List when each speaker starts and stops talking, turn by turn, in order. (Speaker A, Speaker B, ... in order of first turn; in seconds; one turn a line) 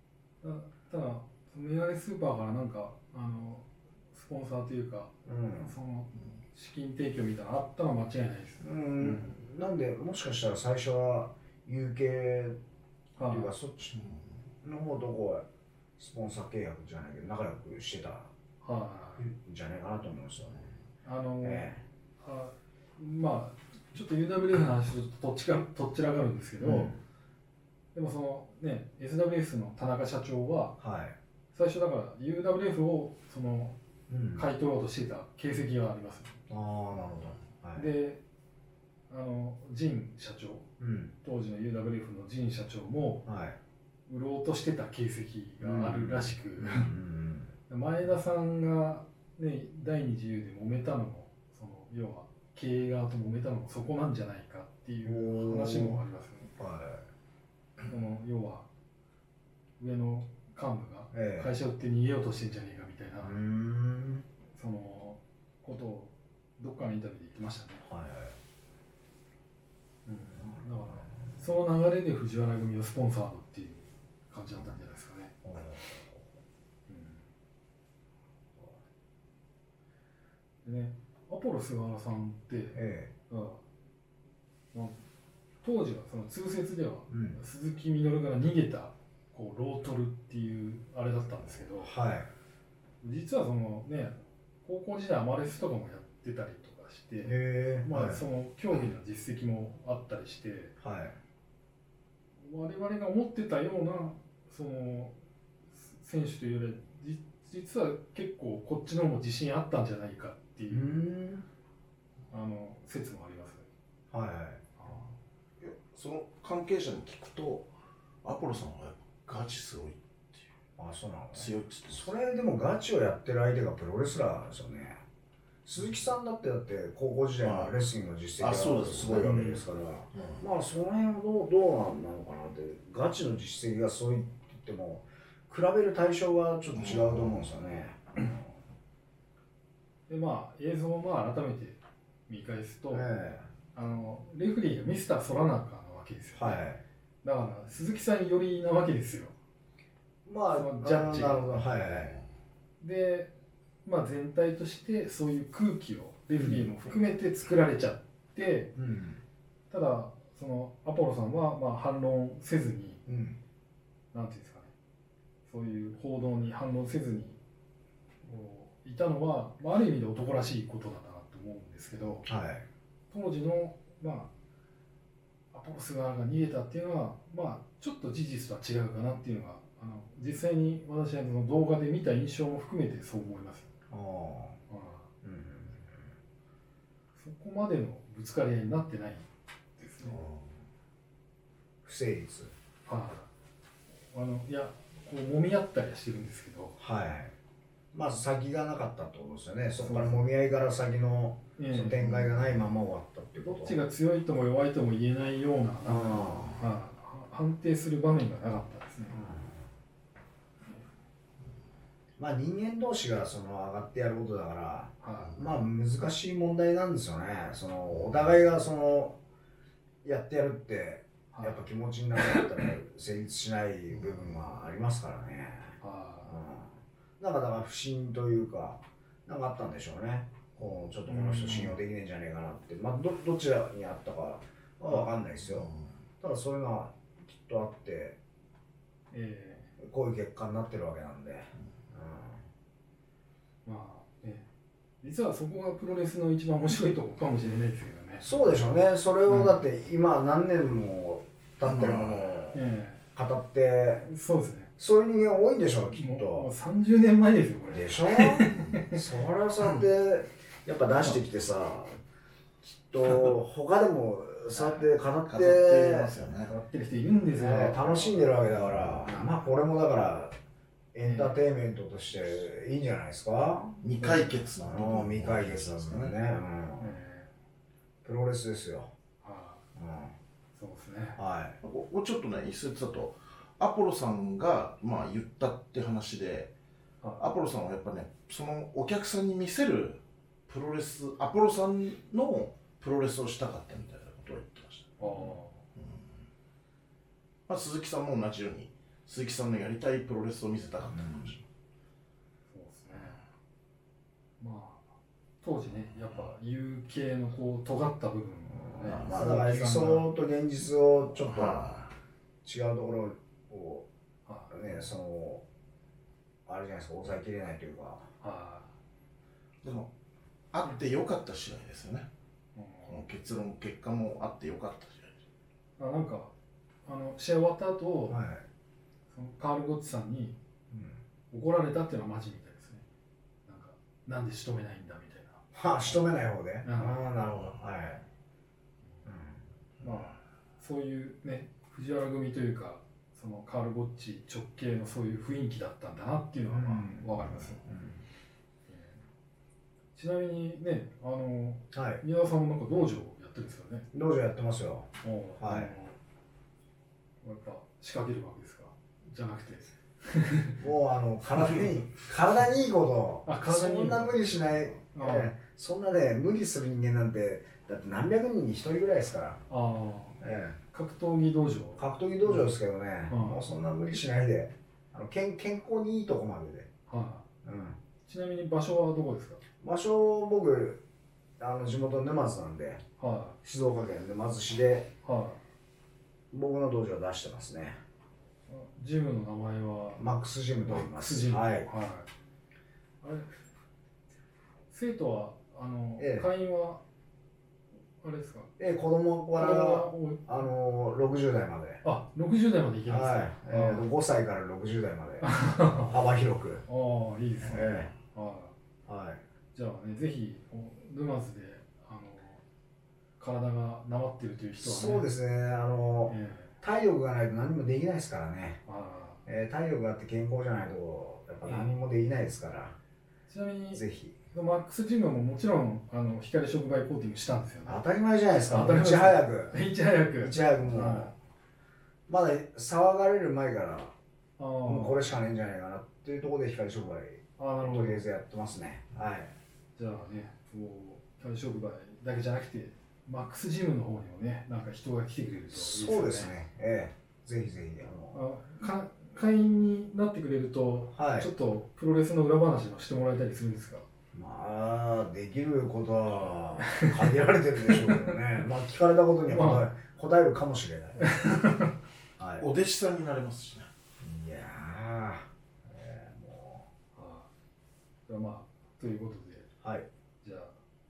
Speaker A: 0.4-9.4
Speaker B: 5.2-5.8
Speaker B: 8.6-12.6
Speaker A: 13.2-13.5
Speaker B: 13.2-14.0
Speaker B: 14.6-15.4
Speaker B: 16.0-18.3
Speaker A: 18.6-19.3
Speaker B: 19.2-20.7
Speaker A: 21.0-26.9
Speaker B: 21.4-21.8
Speaker B: 26.6-27.0
Speaker A: 27.9-30.8
Speaker B: 30.8-31.2
Speaker A: 31.5-33.8
Speaker B: 34.1-34.5
Speaker A: 34.4-36.4
Speaker B: 36.5-37.9
Speaker A: 37.8-38.2
Speaker A: 39.1-40.7
Speaker B: 40.8-41.1
Speaker A: 41.2-43.2
Speaker B: 43.3-43.6
Speaker A: 44.1-46.9
Speaker B: 45.6-47.5
Speaker A: 47.7-56.5
Speaker B: 55.0-56.0
Speaker B: 56.6-57.0
Speaker A: 57.9-58.7
Speaker A: 59.8-63.4
Speaker B: 61.1-61.5
Speaker B: 63.2-64.3
Speaker A: 64.5-67.8
Speaker B: 67.8-68.3
Speaker A: 70.1-75.3
Speaker B: 75.4-76.3
Speaker A: 76.9-77.2
Speaker A: 80.6-83.6
Speaker B: 82.8-83.1
Speaker A: 84.7-85.0
Speaker A: 85.6-91.9
Speaker B: 87.1-87.4
Speaker B: 91.8-92.3
Speaker A: 93.0-100.7
Speaker B: 97.2-98.2
Speaker B: 100.8-101.2
Speaker A: 102.4-105.2
Speaker A: 105.7-110.9
Speaker B: 110.7-111.5
Speaker A: 112.3-113.7
Speaker B: 114.1-114.7
Speaker A: 114.8-115.1
Speaker C: 115.6-117.7
Speaker C: 118.2-120.4
Speaker B: 120.8-125.0
Speaker C: 121.3-122.1
Speaker B: 125.7-138.5
Speaker C: 127.4-127.8
Speaker C: 128.4-130.4
Speaker C: 136.8-137.3
Speaker A: 140.1-143.1
Speaker B: 142.9-143.5
Speaker A: 143.7-146.6
Speaker B: 146.3-146.8
Speaker A: 147.2-149.3
Speaker B: 150.3-152.2
Speaker A: 150.5-151.6
Speaker A: 152.8-153.3
Speaker A: 153.8-158.7
Speaker B: 156.4-156.8
Speaker B: 158.8-159.2
Speaker A: 159.7-163.0
Speaker B: 163.1-163.4
Speaker A: 164.1-164.7
Speaker A: 165.4-167.4
Speaker A: 168.2-172.3
Speaker B: 172.3-172.7
Speaker A: 173.1-174.3
Speaker A: 175.5-183.7
Speaker B: 183.9-184.6
Speaker A: 184.7-185.1
Speaker B: 185.2-185.9
Speaker A: 187.2-190.3
Speaker B: 191.8-192.5
Speaker A: 192.8-193.3
Speaker A: 194.1-196.8
Speaker B: 196.8-197.3
Speaker B: 197.9-203.8
Speaker A: 199.8-200.3
Speaker A: 201.6-202.6
Speaker A: 203.4-209.2
Speaker B: 205.8-206.6
Speaker B: 209.1-209.6
Speaker B: 212.2-219.2
Speaker A: 215.0-215.4
Speaker B: 220.0-238.2
Speaker A: 221.3-221.6
Speaker A: 222.2-222.5
Speaker A: 225.8-226.4
Speaker A: 231.1-231.8
Speaker A: 239.1-239.7
Speaker B: 239.8-242.4
Speaker A: 243.7-244.5
Speaker A: 245.0-248.3
Speaker B: 248.2-252.6
Speaker A: 249.3-249.7
Speaker C: 251.7-252.3
Speaker A: 252.5-253.0
Speaker B: 253.2-254.1
Speaker A: 254.0-254.7
Speaker B: 254.8-256.5
Speaker A: 255.9-259.0
Speaker B: 257.7-262.0
Speaker C: 258.5-258.8
Speaker B: 262.6-266.1
Speaker A: 264.5-264.9
Speaker C: 265.3-266.5
Speaker A: 266.5-269.4
Speaker B: 267.3-270.4
Speaker B: 270.9-277.0
Speaker A: 271.0-271.4
Speaker C: 273.8-276.1
Speaker A: 276.8-277.3
Speaker B: 278.0-278.9
Speaker A: 279.2-279.6
Speaker B: 279.8-280.1
Speaker A: 280.5-281.2
Speaker B: 281.2-281.6
Speaker C: 281.6-286.5
Speaker A: 287.0-287.3
Speaker C: 287.2-295.9
Speaker A: 295.0-295.6
Speaker C: 297.5-301.4
Speaker A: 302.5-303.2
Speaker A: 304.4-304.9
Speaker A: 305.4-310.1
Speaker C: 308.8-309.5
Speaker B: 308.8-311.7
Speaker C: 311.2-311.9
Speaker B: 312.4-313.9
Speaker A: 314.3-314.8
Speaker B: 314.5-315.4
Speaker B: 316.5-318.1
Speaker A: 318.2-318.7
Speaker C: 319.6-319.9
Speaker C: 320.5-322.1
Speaker A: 322.6-323.1
Speaker C: 322.9-325.1
Speaker A: 325.8-326.3
Speaker A: 326.9-328.2
Speaker B: 328.1-328.4
Speaker A: 329.1-330.4
Speaker B: 330.7-331.0
Speaker A: 331.3-332.8
Speaker A: 333.5-336.0
Speaker B: 335.5-338.0
Speaker A: 336.6-337.1
Speaker B: 339.1-339.4
Speaker A: 339.8-347.6
Speaker B: 346.5-348.0
Speaker A: 348.7-349.0
Speaker A: 349.9-353.9
Speaker B: 351.7-352.0
Speaker B: 353.9-354.9
Speaker A: 355.0-356.0
Speaker B: 355.4-355.7
Speaker A: 357.2-360.6
Speaker B: 360.6-369.4
Speaker A: 363.3-365.3
Speaker A: 369.5-372.5
Speaker B: 370.2-370.6
Speaker B: 371.8-376.7
Speaker A: 373.1-373.4
Speaker A: 376.9-377.2
Speaker B: 377.4-377.8
Speaker A: 378.1-379.4
Speaker B: 379.6-380.8
Speaker B: 381.4-382.8
Speaker A: 383.0-383.4
Speaker B: 383.4-384.9
Speaker A: 385.0-385.4
Speaker B: 386.3-387.8
Speaker A: 388.5-392.1
Speaker B: 390.0-391.7
Speaker A: 393.0-393.3
Speaker A: 394.7-396.8
Speaker B: 396.0-396.3
Speaker A: 398.0-398.5
Speaker B: 398.6-401.8
Speaker A: 399.3-400.3
Speaker A: 401.8-403.9
Speaker B: 402.9-406.6
Speaker A: 405.2-406.0
Speaker A: 406.7-408.5
Speaker B: 407.5-407.9
Speaker B: 408.9-409.2
Speaker A: 409.5-412.4
Speaker A: 413.2-415.1
Speaker B: 414.6-418.6
Speaker A: 416.1-416.5
Speaker A: 418.7-419.2
Speaker B: 419.3-422.8
Speaker A: 421.4-421.7
Speaker A: 423.3-427.8
Speaker B: 423.7-424.2
Speaker B: 427.6-429.6
Speaker A: 428.5-431.1
Speaker B: 430.2-431.1
Speaker B: 432.1-433.9
Speaker A: 434.4-435.2
Speaker B: 434.6-439.3
Speaker A: 437.4-438.1
Speaker A: 439.8-446.3
Speaker B: 445.5-448.2
Speaker A: 448.1-453.9
Speaker B: 450.9-451.3
Speaker B: 454.1-461.2
Speaker A: 457.7-458.1
Speaker A: 459.3-459.7
Speaker A: 461.0-461.7
Speaker B: 462.2-462.5
Speaker C: 462.4-463.7
Speaker B: 464.0-466.7
Speaker A: 466.9-467.3
Speaker A: 468.1-469.5
Speaker B: 469.6-469.9
Speaker A: 470.2-470.5